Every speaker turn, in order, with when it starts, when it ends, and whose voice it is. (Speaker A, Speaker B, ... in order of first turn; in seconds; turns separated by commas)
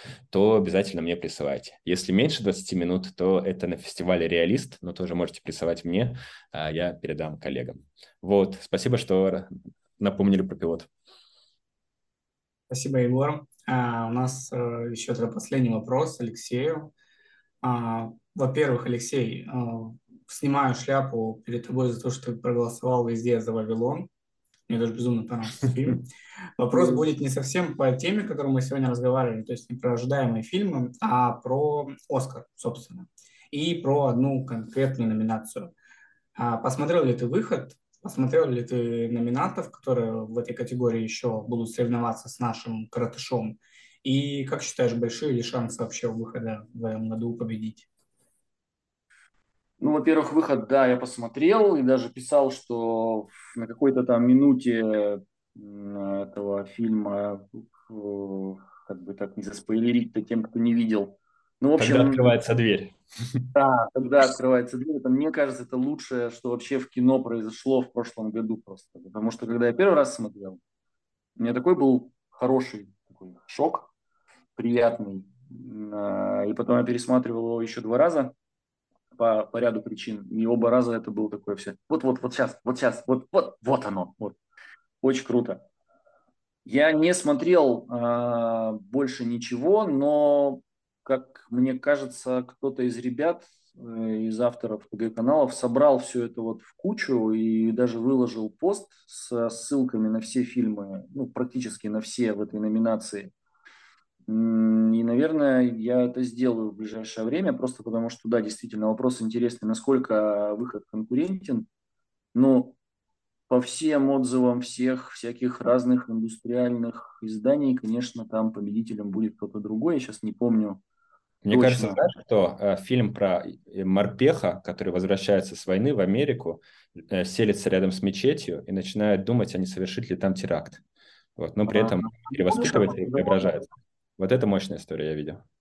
Speaker A: 0.3-9.5, Speaker A: 10.0-10.9, Speaker B: 12.7-16.9, Speaker B: 17.6-24.1, Speaker B: 24.7-26.1, Speaker B: 26.6-35.7, Speaker B: 36.4-47.9, Speaker C: 49.8-62.4, Speaker A: 61.8-63.4, Speaker C: 63.5-70.6, Speaker C: 71.4-73.9, Speaker C: 74.6-78.3, Speaker C: 79.1-84.3, Speaker C: 85.0-85.6, Speaker C: 86.7-103.3, Speaker C: 104.3-111.7, Speaker C: 112.3-112.8, Speaker C: 113.5-120.8, Speaker A: 121.4-130.8, Speaker C: 121.5-122.0, Speaker A: 131.4-135.4, Speaker C: 131.7-133.7